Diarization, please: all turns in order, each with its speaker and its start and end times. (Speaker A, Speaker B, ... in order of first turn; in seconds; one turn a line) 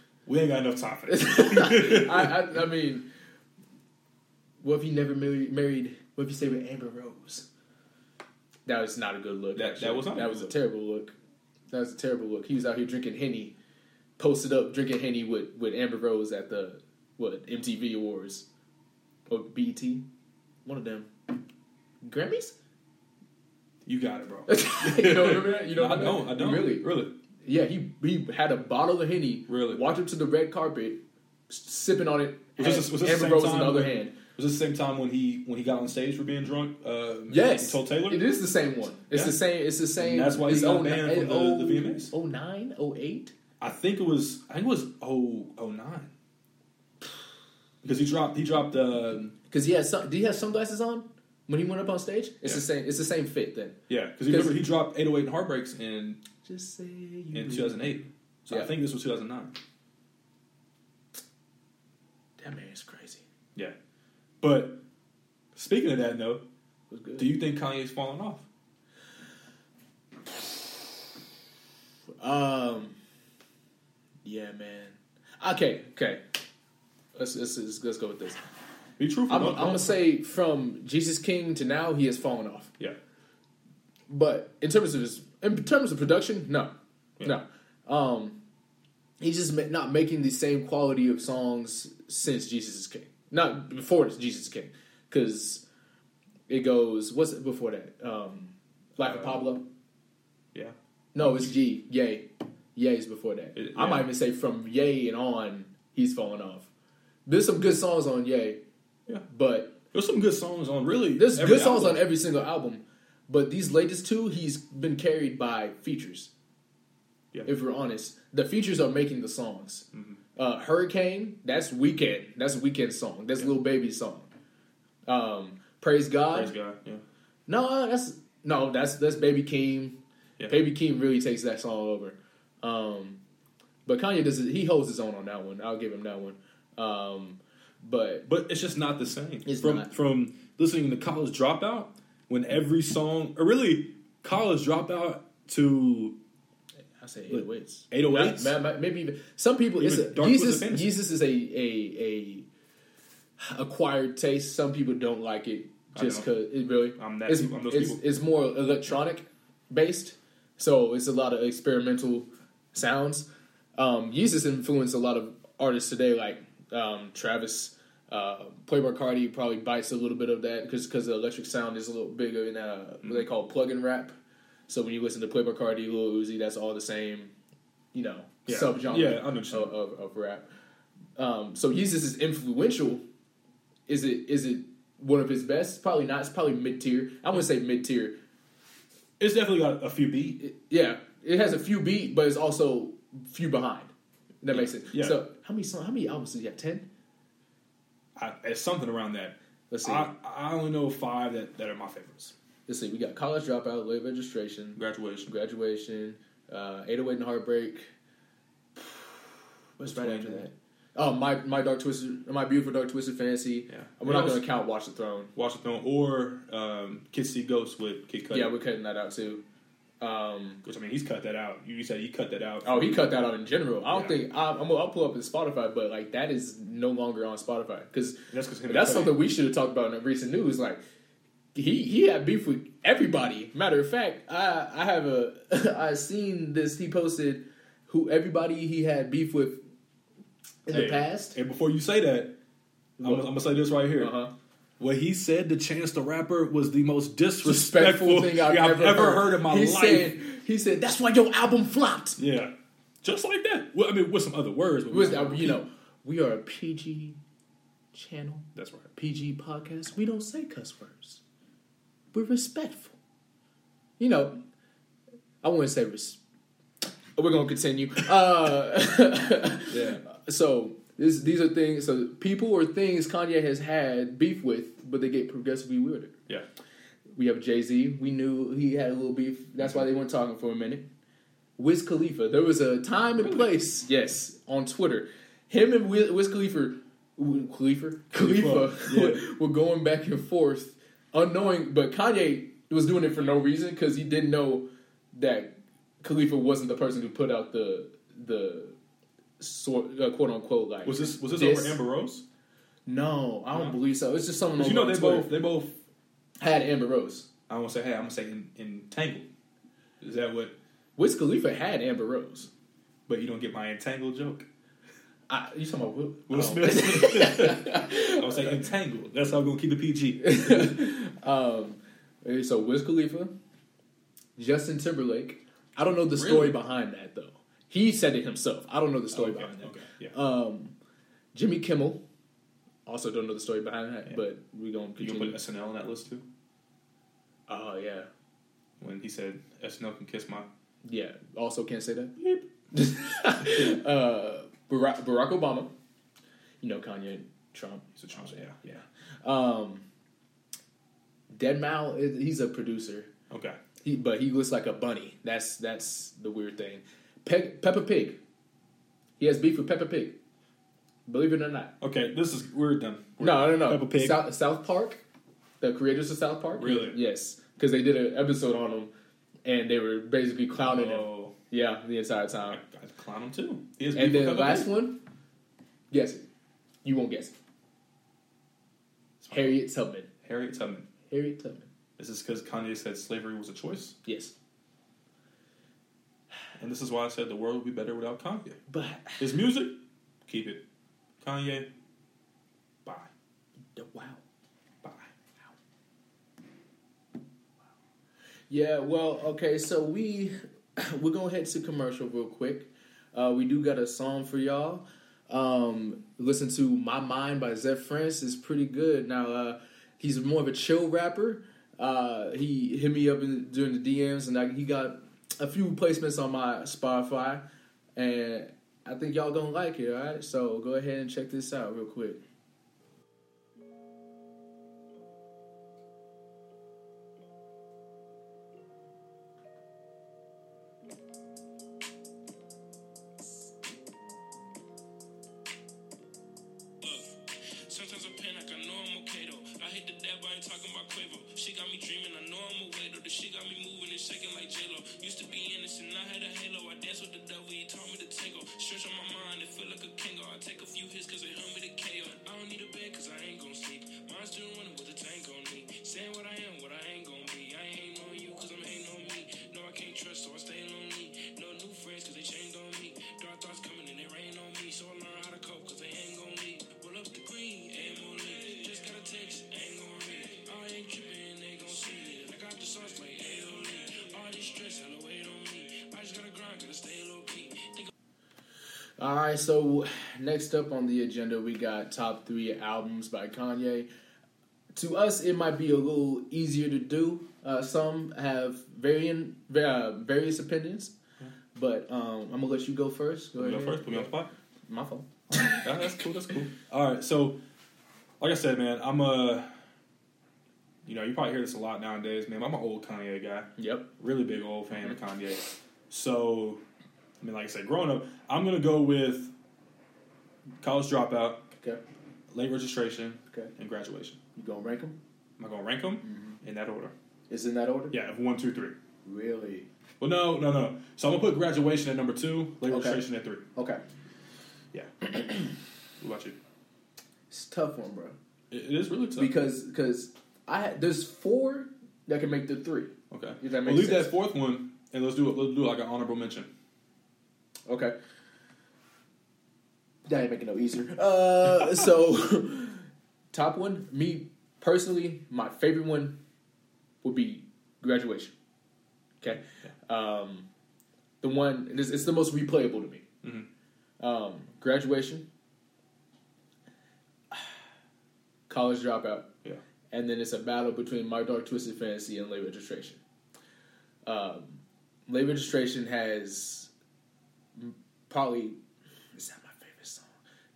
Speaker A: 0.2-2.3
Speaker B: 1.1-3.1
Speaker B: 4.6-7.5
Speaker B: 8.7-11.1
Speaker A: 9.5-10.5
Speaker B: 11.7-13.5
Speaker B: 14.2-18.5
Speaker B: 19.3-20.1
Speaker B: 20.6-21.1
Speaker B: 22.0-22.6
Speaker A: 23.8-27.1
Speaker B: 24.5-26.9
Speaker B: 27.4-34.1
Speaker A: 29.5-29.8
Speaker A: 32.6-38.2
Speaker B: 37.3-43.4
Speaker A: 39.1-39.4
Speaker A: 40.0-42.1
Speaker A: 43.6-46.1
Speaker A: 47.8-49.4
Speaker B: 49.5-54.6
Speaker A: 53.9-56.2
Speaker B: 56.4-58.0
Speaker A: 57.3-59.6
Speaker B: 62.4-63.2
Speaker A: 64.4-64.8
Speaker A: 65.5-66.4
Speaker B: 66.9-67.3
Speaker A: 67.2-68.5
Speaker B: 72.2-73.0
Speaker B: 74.2-76.2
Speaker B: 77.1-78.4
Speaker A: 79.0-80.0
Speaker B: 79.3-82.7
Speaker B: 84.1-86.7
Speaker B: 87.2-88.4
Speaker B: 89.2-95.6
Speaker B: 96.5-99.7
Speaker A: 99.0-99.4
Speaker A: 100.5-101.5
Speaker B: 101.1-106.7
Speaker A: 103.5-104.1
Speaker B: 107.2-108.6
Speaker B: 109.3-109.8
Speaker A: 109.9-112.0
Speaker B: 111.2-116.3
Speaker B: 117.5-124.3
Speaker A: 119.9-120.2
Speaker B: 125.1-126.5
Speaker A: 126.3-127.0
Speaker B: 127.5-133.2
Speaker B: 133.8-138.3
Speaker A: 138.2-146.2
Speaker B: 139.4-139.9
Speaker B: 147.0-152.5
Speaker A: 147.3-148.5
Speaker A: 149.8-151.0
Speaker B: 153.4-174.1
Speaker A: 155.9-156.3
Speaker A: 156.9-158.0
Speaker B: 174.7-177.3
Speaker B: 177.9-180.4
Speaker A: 178.4-179.7
Speaker B: 181.2-183.0
Speaker B: 183.9-188.2
Speaker A: 189.2-190.4
Speaker B: 190.4-196.9
Speaker A: 194.5-195.2
Speaker A: 198.2-202.3
Speaker B: 199.7-200.1
Speaker B: 202.7-207.9
Speaker A: 204.8-205.3
Speaker B: 208.8-209.2
Speaker B: 209.8-215.3
Speaker A: 209.8-210.5
Speaker A: 213.7-214.5
Speaker A: 215.3-218.5
Speaker B: 218.3-219.4
Speaker B: 220.0-220.6
Speaker A: 220.6-223.1
Speaker B: 222.6-230.8
Speaker A: 223.9-224.2
Speaker A: 228.3-229.2
Speaker B: 231.5-239.6
Speaker B: 240.7-241.4
Speaker A: 240.7-242.3
Speaker B: 243.0-243.3
Speaker A: 243.0-244.2
Speaker B: 243.9-244.3
Speaker A: 244.8-250.2
Speaker B: 247.4-252.2
Speaker A: 252.2-255.6
Speaker B: 254.9-257.2
Speaker B: 257.9-261.2
Speaker A: 258.5-258.9
Speaker B: 262.1-262.9
Speaker B: 264.0-264.4
Speaker B: 265.4-266.2
Speaker B: 267.1-276.2
Speaker A: 269.7-270.0
Speaker B: 277.1-280.9
Speaker B: 281.6-298.8
Speaker A: 283.2-283.5
Speaker A: 288.1-289.2
Speaker B: 299.4-301.8
Speaker A: 300.8-302.2
Speaker B: 302.9-305.4
Speaker A: 304.6-305.8
Speaker B: 306.4-307.3
Speaker A: 307.5-309.3
Speaker A: 310.0-310.5
Speaker B: 311.0-312.5
Speaker A: 313.1-314.5
Speaker B: 315.3-318.6
Speaker A: 316.3-320.8
Speaker B: 320.2-323.3
Speaker B: 324.4-330.7
Speaker A: 326.1-326.6
Speaker A: 329.1-330.1
Speaker B: 331.3-332.0
Speaker B: 332.9-335.4
Speaker A: 335.0-336.2
Speaker B: 337.5-338.1
Speaker A: 338.8-340.5
Speaker B: 340.8-342.1
Speaker A: 342.2-342.5
Speaker B: 342.7-345.7
Speaker A: 343.4-343.7
Speaker B: 346.6-349.8
Speaker A: 347.9-348.6
Speaker B: 351.3-353.1
Speaker A: 353.3-353.6
Speaker B: 353.8-358.2
Speaker B: 359.2-360.2
Speaker B: 361.1-361.7
Speaker A: 361.8-364.2
Speaker B: 363.2-365.0
Speaker B: 365.6-368.9
Speaker A: 366.6-367.0
Speaker B: 369.4-372.6
Speaker A: 370.6-371.3
Speaker A: 372.4-374.7
Speaker B: 373.9-375.0
Speaker B: 375.9-376.2
Speaker B: 376.8-377.3
Speaker A: 379.2-379.6
Speaker B: 379.3-380.1
Speaker A: 380.2-380.9
Speaker B: 381.1-381.7
Speaker A: 382.0-384.0
Speaker B: 384.0-384.3
Speaker A: 386.6-388.6
Speaker B: 388.7-389.3
Speaker A: 389.2-390.6
Speaker A: 391.2-391.7
Speaker A: 392.8-393.1
Speaker B: 393.7-394.2
Speaker A: 394.8-395.1
Speaker B: 398.5-417.4
Speaker B: 417.9-422.2
Speaker C: 436.8-477.9
Speaker B: 479.0-483.9
Speaker B: 484.7-490.9
Speaker B: 491.5-494.1
Speaker A: 493.4-494.3
Speaker B: 494.7-495.7
Speaker A: 495.3-497.4
Speaker A: 498.2-499.5
Speaker A: 500.8-506.6
Speaker B: 503.6-503.9
Speaker A: 507.2-509.3
Speaker A: 510.6-511.5
Speaker B: 511.5-511.8
Speaker A: 512.3-514.2
Speaker B: 514.3-515.0
Speaker A: 515.4-516.9
Speaker B: 516.0-516.4
Speaker B: 517.3-518.0
Speaker A: 517.9-518.8
Speaker B: 519.0-519.7
Speaker A: 520.0-523.5
Speaker B: 522.7-523.0
Speaker B: 523.5-523.8
Speaker A: 524.7-525.4
Speaker A: 526.0-526.4
Speaker B: 527.3-528.1
Speaker A: 528.5-529.3
Speaker B: 529.2-534.1
Speaker A: 533.1-536.5
Speaker B: 537.7-537.9
Speaker B: 540.0-546.2
Speaker B: 547.0-548.3
Speaker B: 549.2-550.5
Speaker B: 551.2-553.0
Speaker A: 553.2-553.5
Speaker B: 554.0-555.3
Speaker B: 558.5-559.3
Speaker B: 559.9-563.0
Speaker B: 564.0-566.7
Speaker B: 567.5-568.6
Speaker B: 569.1-570.1